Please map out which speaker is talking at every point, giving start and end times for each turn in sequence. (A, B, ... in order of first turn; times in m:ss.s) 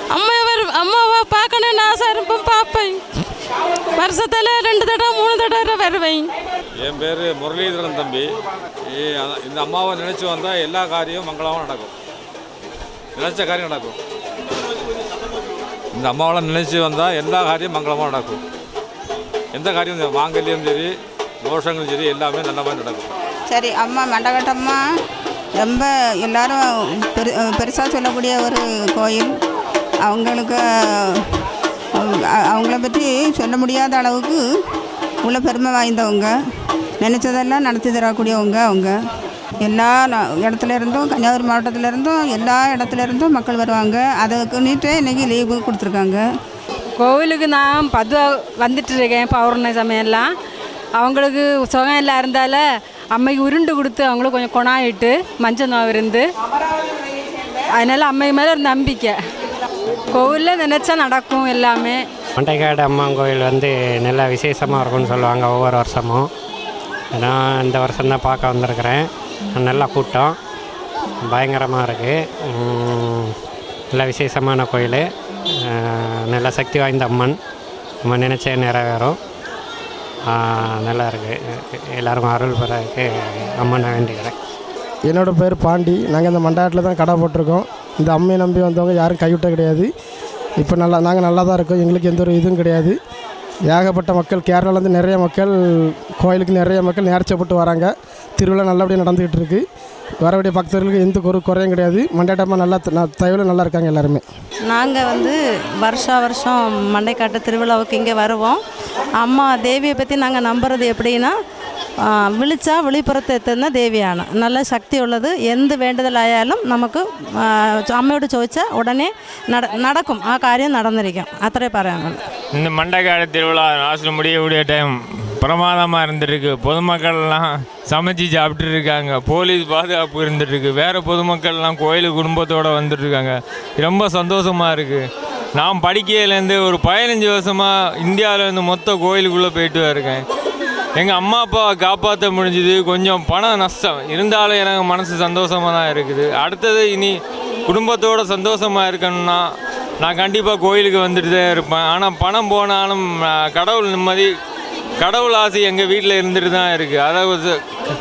0:00.1-0:03.0 A
0:04.0-0:06.3 A
0:06.8-0:08.3 B
0:08.9-0:11.9 B
0:13.2-0:14.0 B
0:16.0-0:18.4 B
0:19.5-0:23.1 B
0:23.5-0:24.6 C
0:23.6-0:24.7 D
0:25.6-0:26.6 D
0:27.2-0:29.3 D
0:27.2-0:28.5 C
0:30.1-0:30.6 D
0:32.6-0:34.4 D
0:33.5-0:34.2 C
0:35.3-0:36.3 D
0:35.3-0:36.2 C
0:37.0-0:38.8 C
0:37.1-0:38.9 D
0:39.7-0:46.2 C
0:40.6-0:44.6 D
0:45.1-0:46.2 D
0:47.0-0:50.3 E
0:51.0-0:56.3 E
0:57.8-0:59.2 E
1:00.1-1:02.0 E
1:02.4-1:06.3 C
1:07.1-1:10.4 C
1:11.2-1:13.4 C
1:13.9-1:17.4 C
1:18.0-1:19.2 C
1:20.3-1:24.4 C
1:25.1-1:29.9 F
1:30.6-1:33.0 F
1:33.7-1:39.6 F
1:40.2-1:44.2 F
1:44.7-1:48.6 G
1:49.2-1:51.3 G
1:52.3-2:02.2 G
2:02.5-2:15.0 H
2:15.6-2:20.2 H
2:21.0-2:27.1 H
2:27.7-2:29.5 H
2:30.0-2:34.3 H
2:35.0-2:37.6 H